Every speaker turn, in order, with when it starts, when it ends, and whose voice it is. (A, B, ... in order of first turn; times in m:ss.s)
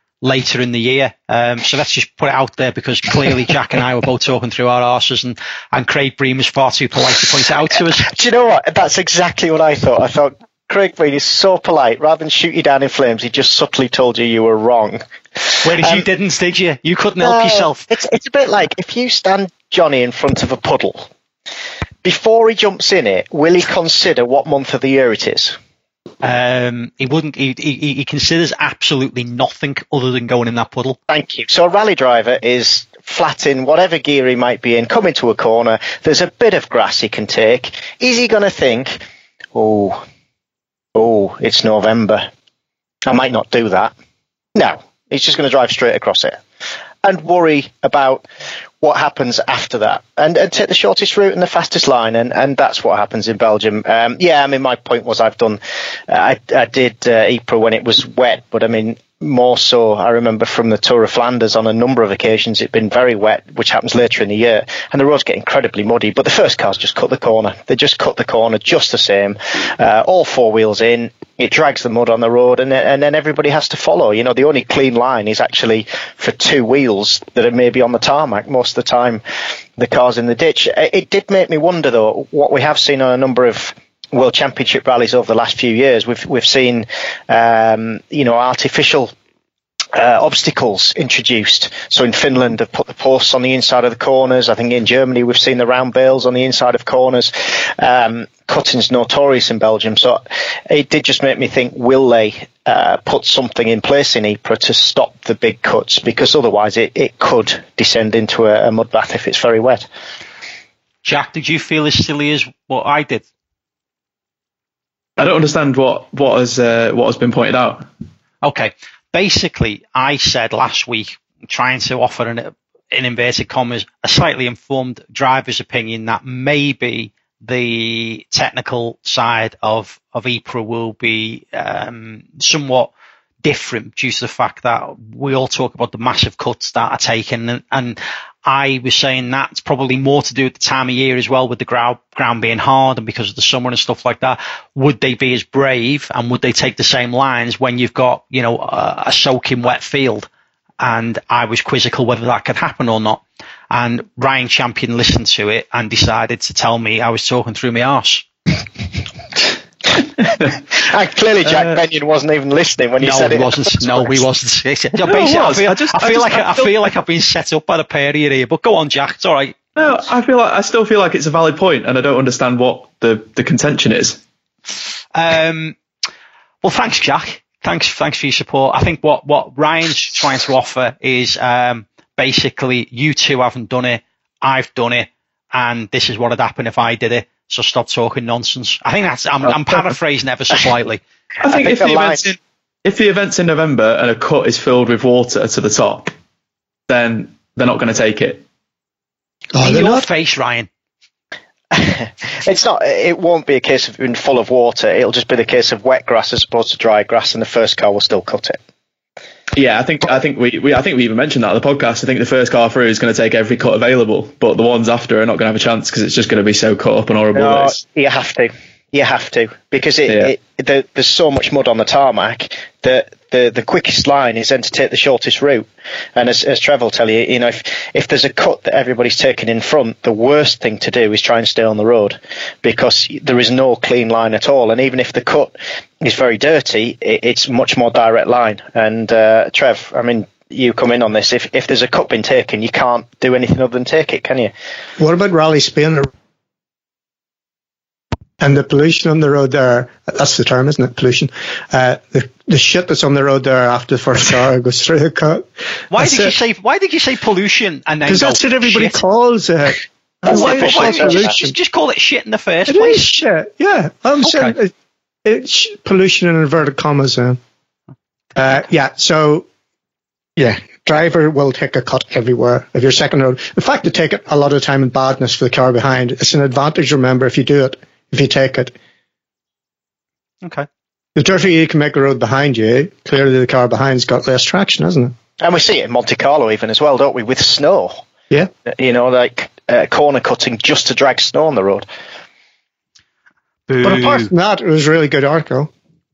0:00.2-0:08.1 A
0:08.0-0:16.0 B
0:15.6-0:17.9 A
0:17.2-0:21.1 B
0:22.0-0:25.6 B
0:26.2-0:31.0 A
0:31.1-0:39.0 B
0:39.5-0:40.0 B
0:41.0-0:42.3 B
0:43.1-0:43.9 B
0:44.6-0:46.4 B
0:47.0-0:48.3 B
0:48.8-1:19.2 B
1:19.8-1:29.1 B
1:29.9-1:49.8 B
1:51.0-1:53.2 A
1:55.2-1:57.9 C
1:58.4-2:12.9 A
2:13.4-2:30.3 A
2:30.8-2:38.2 A
2:40.3-2:44.2 B
2:43.0-2:49.6 A
2:45.0-2:46.8 C
2:49.8-2:54.2 C
2:55.2-2:55.8 A
2:56.6-3:11.0 A
3:11.4-3:16.1 C
3:11.4-3:12.3 B
3:16.9-3:18.4 C
3:19.5-3:20.1 D
3:19.6-3:20.7 A
3:21.7-3:28.6 B
3:29.5-3:37.8 C
3:37.3-4:04.5 B
3:40.1-3:40.3 C
4:05.0-4:06.1 D
4:08.4-4:16.3 D
4:15.9-4:19.0 A
4:18.1-4:21.5 D
4:20.3-4:23.1 A
4:20.6-4:21.2 B
4:22.7-4:24.7 D
4:24.2-4:24.5 A
4:25.2-4:27.4 D
4:28.4-4:29.5 D
4:30.4-4:38.8 D
4:40.4-4:40.7 A
4:41.2-4:45.1 D
4:45.4-4:48.0 B
4:48.7-4:51.9 B
4:53.7-4:54.3 A
4:53.8-4:55.7 D